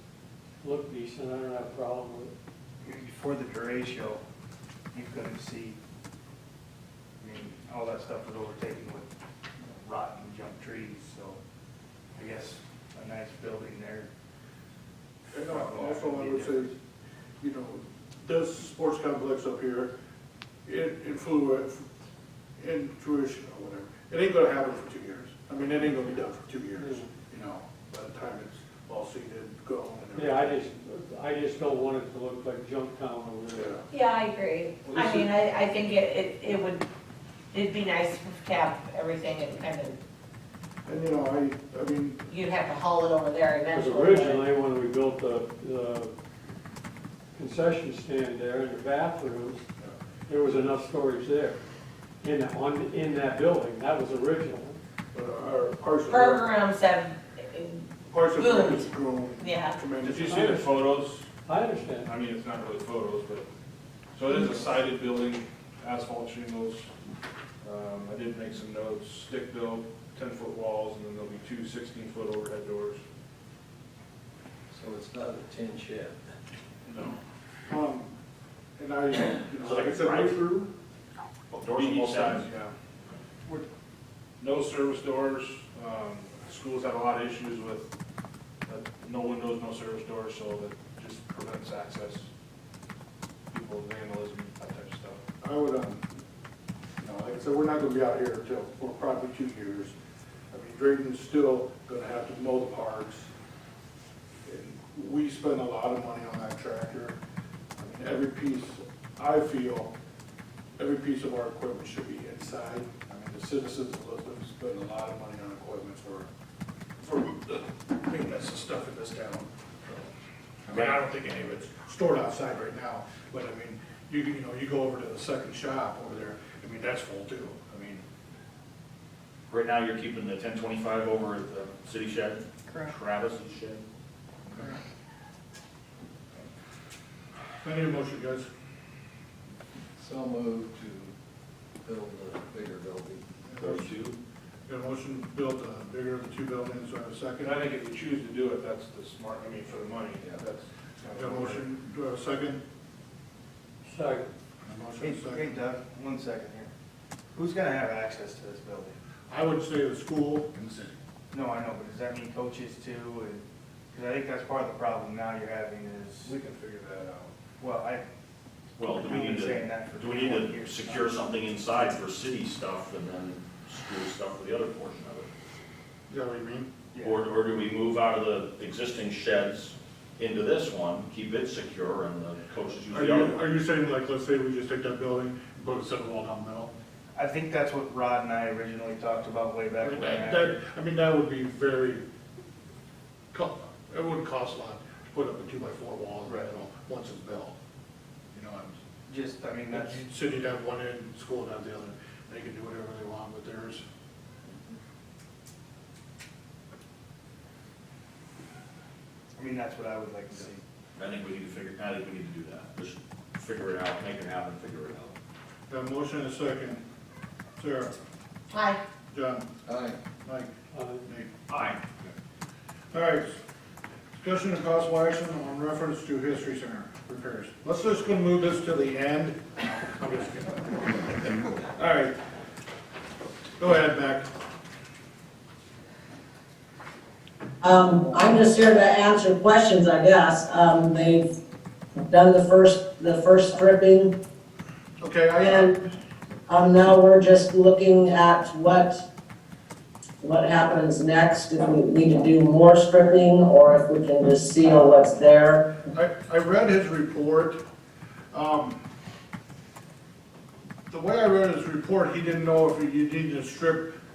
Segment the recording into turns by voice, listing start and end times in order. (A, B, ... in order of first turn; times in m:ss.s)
0:00.6-0:02.3 A
0:02.8-0:04.2 B
0:04.9-0:05.8 B
0:07.2-0:09.1 B
0:09.8-0:11.4 B
0:12.2-0:14.1 B
0:15.3-0:16.7 C
0:15.4-0:16.7 B
0:17.4-0:19.9 C
0:20.6-0:21.8 C
0:22.6-0:30.5 C
0:26.8-0:27.1 A
0:30.1-0:33.7 A
0:33.6-0:33.8 C
0:33.9-0:36.8 D
0:37.5-0:40.0 D
0:40.8-0:42.2 C
0:42.3-0:44.4 D
0:43.7-0:46.1 A
0:47.3-0:49.6 A
0:50.3-0:51.6 A
0:52.2-0:54.8 A
0:55.1-0:56.6 C
0:56.1-0:57.8 D
0:58.1-1:00.6 C
0:58.4-0:58.9 D
0:59.4-0:59.8 D
1:00.0-1:01.3 E
1:00.3-1:00.7 A
1:01.4-1:02.1 A
1:02.0-1:03.5 E
1:04.2-1:06.9 E
1:07.6-1:13.0 E
1:14.7-1:16.2 F
1:16.9-1:17.2 E
1:17.7-1:18.1 C
1:18.8-1:20.7 C
1:19.6-1:20.4 G
1:21.5-1:22.5 G
1:21.7-1:22.7 E
1:24.4-1:27.9 E
1:28.7-1:32.3 E
1:33.5-1:35.2 E
1:35.4-1:36.0 C
1:37.0-1:39.9 C
1:40.5-1:43.3 C
1:44.4-1:47.2 C
1:47.8-1:49.9 C
1:50.8-1:56.3 C
1:57.0-2:00.1 C
2:00.7-2:08.0 C
2:00.7-2:01.0 G
2:09.5-2:13.8 G
2:17.6-2:18.5 C
2:20.0-2:21.1 F
2:21.8-2:23.2 F
2:23.5-2:23.8 C
2:23.6-2:24.2 G
2:24.7-2:27.6 C
2:27.4-2:31.7 E
2:31.1-2:32.6 C
2:33.8-2:34.3 A
2:34.6-2:35.5 C
2:35.0-2:36.7 B
2:37.3-2:39.0 B
2:39.3-2:41.0 C
2:41.3-2:46.3 B
2:46.2-2:47.3 E
2:47.6-2:48.0 B
2:48.8-2:55.3 G
2:48.8-2:51.0 B
2:56.1-2:56.7 C
2:56.9-2:57.2 B
2:57.0-3:03.4 G
3:02.9-3:06.7 C
3:07.1-3:10.6 B
3:09.8-3:12.0 C
3:13.3-3:17.5 C
3:16.2-3:16.6 B
3:18.3-3:18.8 C
3:19.1-3:20.0 B
3:19.7-3:23.8 C
3:29.4-3:30.6 B
3:31.0-3:35.2 G
3:35.7-3:36.8 C
3:37.6-3:38.0 C
3:38.5-3:38.8 D
3:39.1-3:39.5 C
3:39.7-3:40.0 F
3:40.2-3:40.5 C
3:40.7-3:41.1 A
3:41.0-3:41.3 C
3:41.5-3:41.8 G
3:42.9-3:43.4 C
3:44.2-3:51.0 C
3:51.6-3:52.1 C
3:53.6-3:54.3 C
3:57.6-4:01.3 H
4:02.1-4:04.1 H
4:05.0-4:05.7 C
4:05.4-4:05.7 H
4:06.5-4:09.0 H
4:10.2-4:15.8 H
4:15.9-4:17.6 C
4:18.3-4:18.8 C
4:20.9-4:23.9 C